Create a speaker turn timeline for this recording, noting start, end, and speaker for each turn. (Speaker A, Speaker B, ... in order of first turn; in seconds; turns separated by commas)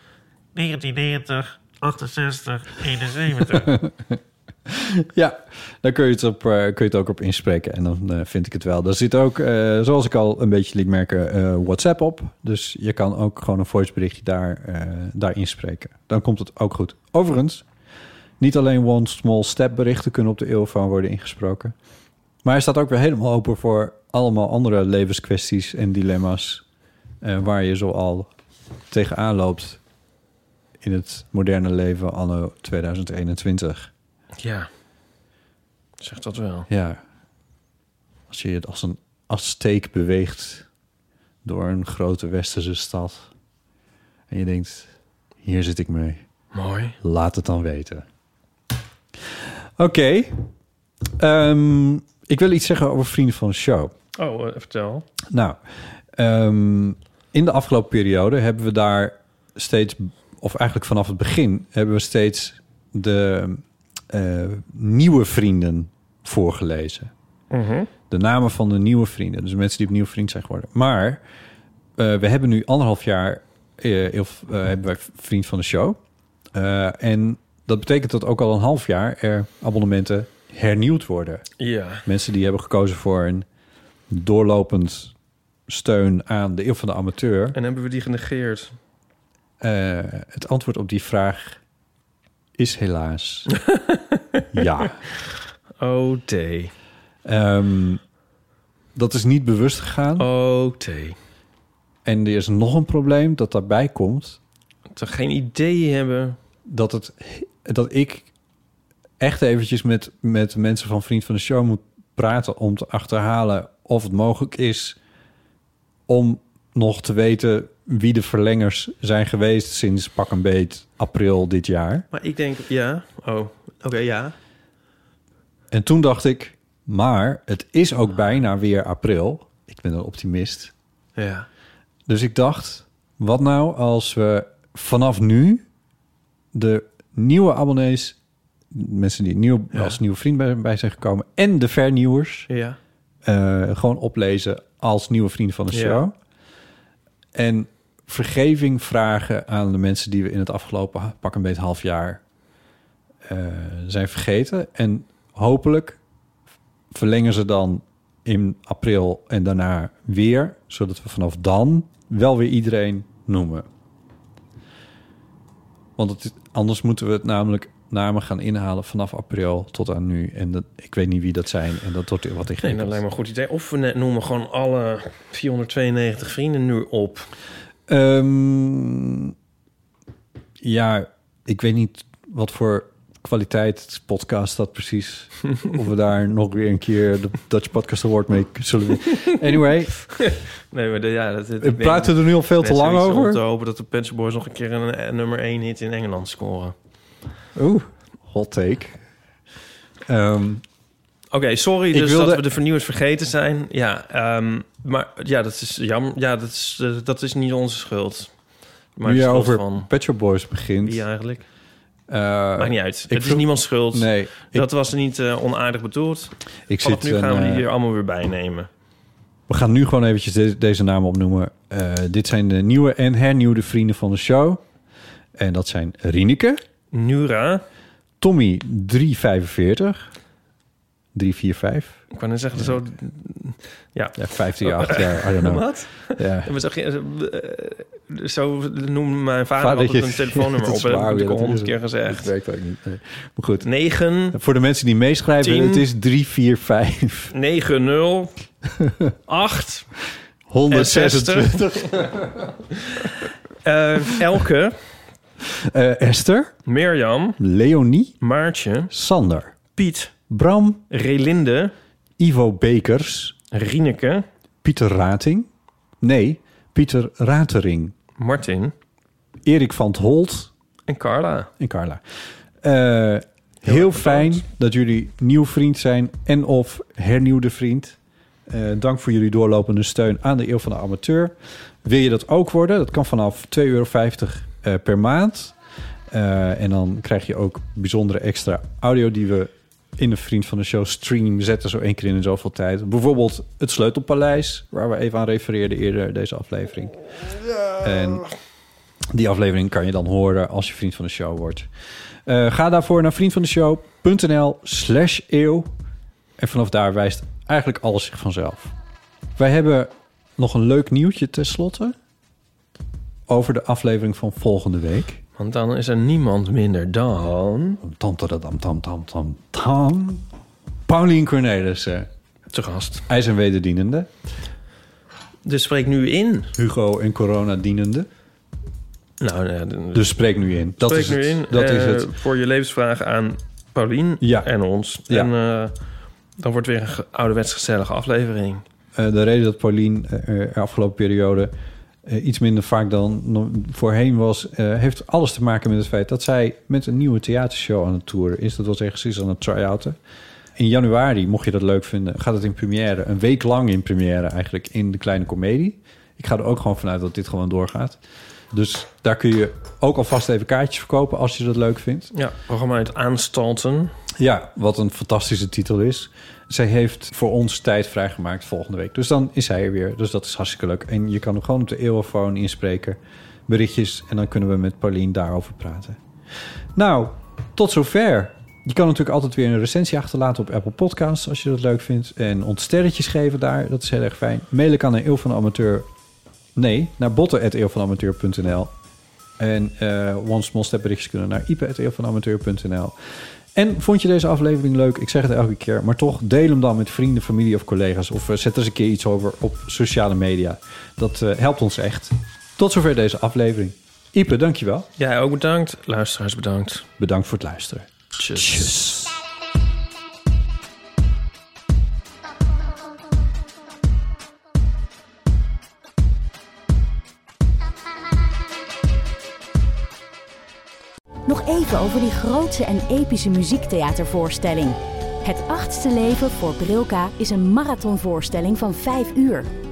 Speaker A: 0.5-3.8, Speaker B: 3.6-17.6, Speaker B: 18.4-21.7, Speaker B: 22.4-26.6, Speaker B: 27.2-28.3, Speaker B: 28.9-29.8, Speaker B: 30.8-33.9, Speaker A: 34.4-34.7, Speaker A: 36.0-36.7, Speaker B: 36.7-37.0, Speaker B: 38.3-40.7, Speaker B: 41.4-43.3, Speaker B: 44.3-44.9, Speaker B: 45.4-46.2, Speaker A: 46.5-47.0, Speaker B: 47.0-48.0, Speaker B: 49.4-50.5, Speaker B: 51.2-53.9, Speaker A: 54.2-55.0, Speaker B: 55.3-55.6, Speaker B: 56.1-67.1, Speaker A: 67.5-67.9, Speaker B: 68.1-71.2, Speaker B: 72.0-76.0, Speaker B: 76.5-81.5, Speaker A: 81.6-82.0, Speaker B: 82.0-83.5, Speaker B: 84.1-85.1, Speaker B: 85.7-87.6, Speaker A: 87.5-88.7, Speaker B: 89.6-91.6, Speaker B: 92.6-93.5, Speaker A: 93.6-94.4, Speaker B: 94.5-95.0, Speaker A: 95.8-96.7, Speaker B: 97.2-98.0, Speaker B: 99.0-100.3, Speaker A: 100.2-101.2, Speaker B: 102.0-104.4, Speaker A: 105.0-106.4, Speaker B: 106.7-108.3, Speaker B: 109.2-115.0, Speaker B: 116.1-122.0, Speaker A: 122.1-124.3, Speaker B: 125.7-130.7, Speaker A: 131.2-131.5, Speaker B: 132.1-135.6, Speaker B: 136.5-138.2, Speaker B: 138.7-142.5, Speaker A: 142.5-142.8, Speaker B: 143.2-146.1, Speaker A: 145.7-146.0, Speaker B: 147.3-152.2, Speaker B: 153.2-156.0, Speaker B: 156.9-163.7, Speaker B: 166.0-173.0, Speaker A: 172.6-177.3, Speaker B: 177.9-179.3, Speaker B: 180.6-190.0, Speaker A: 190.1-196.7, Speaker B: 191.6-193.4, Speaker B: 197.6-199.0, Speaker B: 200.1-200.6, Speaker A: 201.3-208.3, Speaker B: 201.9-202.4, Speaker A: 208.9-209.9, Speaker B: 209.0-211.0, Speaker A: 210.8-211.4, Speaker B: 212.1-214.7, Speaker A: 212.6-218.7, Speaker B: 216.7-217.7, Speaker B: 219.5-224.6, Speaker B: 225.4-226.6, Speaker A: 226.9-227.6, Speaker B: 228.2-230.1, Speaker B: 231.1-232.0, Speaker A: 232.1-242.3, Speaker B: 234.2-236.5, Speaker B: 239.6-243.7, Speaker A: 243.6-244.4, Speaker B: 244.3-247.3, Speaker A: 245.4-245.8, Speaker A: 247.3-248.3, Speaker B: 248.8-249.1, Speaker A: 249.3-249.9, Speaker B: 250.5-252.5, Speaker A: 250.7-252.0, Speaker A: 252.8-254.8, Speaker B: 255.5-256.6, Speaker A: 256.7-257.4, Speaker B: 257.4-258.1, Speaker A: 258.2-258.9, Speaker B: 258.9-259.5, Speaker A: 259.8-260.1, Speaker B: 260.3-260.8, Speaker A: 260.9-261.7, Speaker B: 262.2-263.4, Speaker A: 263.5-264.2, Speaker B: 264.6-265.5, Speaker B: 266.0-267.9, Speaker A: 268.2-268.7, Speaker B: 269.4-270.5, Speaker A: 270.9-271.5, Speaker B: 271.6-272.0, Speaker B: 272.6-278.0, Speaker A: 273.6-274.4, Speaker B: 278.5-285.5, Speaker B: 286.1-297.0, Speaker B: 297.8-298.3, Speaker B: 299.1-301.7, Speaker B: 302.2-305.7, Speaker B: 306.4-308.7, Speaker B: 309.4-311.9, Speaker B: 313.3-315.2, Speaker A: 315.4-317.8, Speaker B: 317.8-320.2, Speaker B: 320.9-322.1, Speaker A: 322.5-323.0, Speaker B: 323.1-324.1, Speaker A: 325.4-326.5, Speaker B: 326.6-328.1, Speaker A: 329.2-330.1, Speaker B: 329.9-332.1, Speaker A: 330.8-335.7, Speaker B: 334.2-334.5, Speaker A: 336.4-338.6, Speaker B: 338.9-341.5, Speaker B: 342.0-350.0, Speaker B: 350.6-358.0, Speaker B: 358.5-362.1, Speaker A: 362.1-363.9, Speaker B: 364.1-376.0, Speaker B: 376.8-385.9, Speaker B: 386.6-388.7, Speaker B: 389.4-392.9, Speaker B: 393.5-404.9, Speaker A: 405.0-406.9, Speaker B: 407.0-409.2, Speaker A: 408.2-408.7, Speaker C: 421.2-429.5